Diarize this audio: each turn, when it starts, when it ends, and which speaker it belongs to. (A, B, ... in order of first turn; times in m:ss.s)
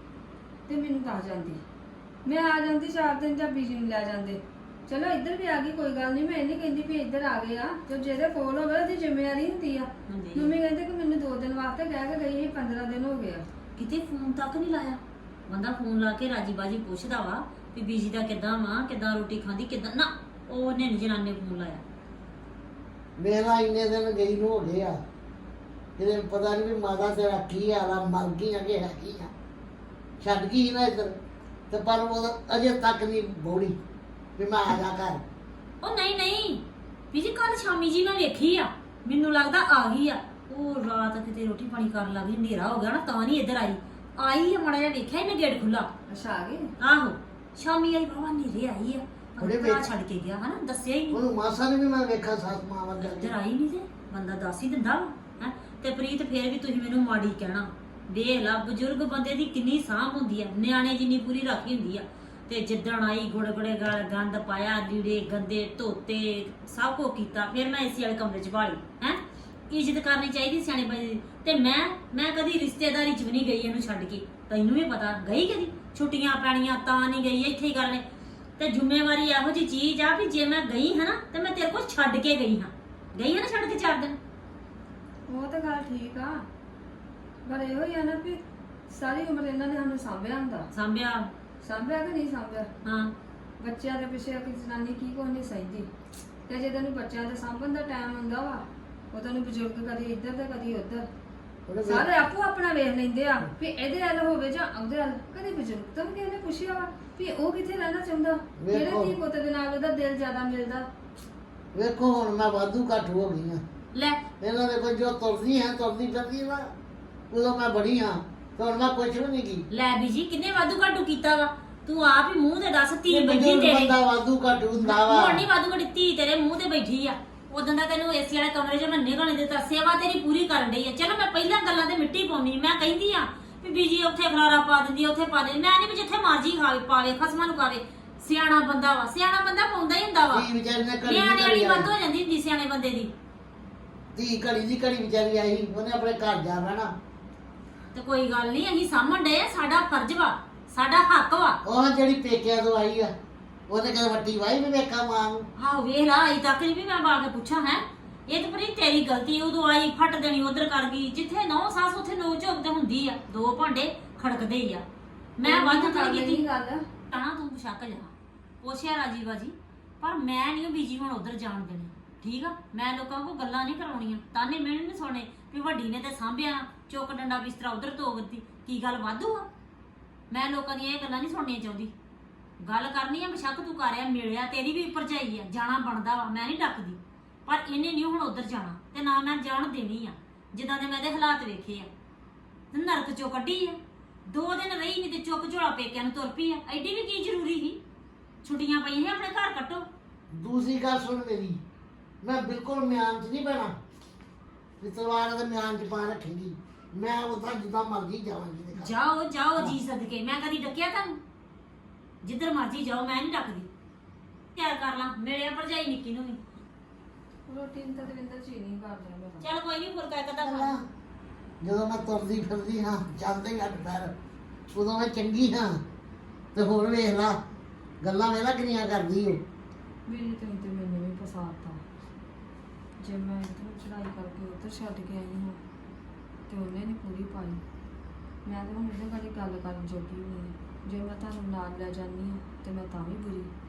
0:00.7-0:01.6 A
0:02.2-0:13.4 A
0:10.1-0:10.5 B
0:13.8-0:21.8 B
0:23.2-0:25.0 C
0:26.0-0:29.3 C
0:30.2-0:31.2 C
0:31.7-0:33.8 C
0:34.4-0:35.2 C
0:35.8-0:45.9 B
0:46.1-0:46.7 A
0:46.8-0:51.2 B
0:49.4-0:49.9 C
0:51.1-0:53.3 C
0:53.0-1:18.0 B
1:18.6-1:24.2 B
1:25.3-1:26.4 A
1:27.4-1:30.7 A
1:30.7-1:31.3 B
1:31.6-1:32.7 A
1:32.8-1:33.1 B
1:33.6-1:35.9 A
1:36.5-1:41.1 A
1:41.7-1:42.0 C
1:41.8-1:50.8 A
1:48.6-1:49.1 C
1:51.7-1:53.6 C
1:54.4-1:56.7 C
1:57.3-1:59.6 C
1:59.7-2:04.0 B
2:03.1-2:05.4 C
2:04.8-2:20.5 B
2:20.3-2:21.9 C
2:21.0-2:23.1 B
2:24.1-2:26.9 C
2:27.9-2:31.6 B
2:31.6-2:33.1 C
2:33.7-2:35.5 C
2:35.6-2:44.8 B
2:45.4-2:46.4 B
2:45.4-2:46.8 A
2:47.1-2:59.5 B
3:00.3-3:01.9 B
3:02.6-3:11.9 B
3:12.7-3:17.8 B
3:18.4-3:19.9 B
3:20.3-3:21.6 C
3:22.2-3:23.7 C
3:24.8-3:28.9 C
3:28.8-3:31.2 B
3:32.2-3:33.7 B
3:34.5-3:36.4 B
3:37.5-3:39.5 A
3:39.4-3:40.8 B
3:40.4-3:40.8 C
3:41.6-3:44.1 C
3:44.7-3:45.8 C
3:46.5-3:47.4 C
3:48.0-3:49.4 C
3:50.1-3:51.8 A
3:53.0-3:55.6 A
3:56.5-3:57.6 A
3:58.4-4:03.5 A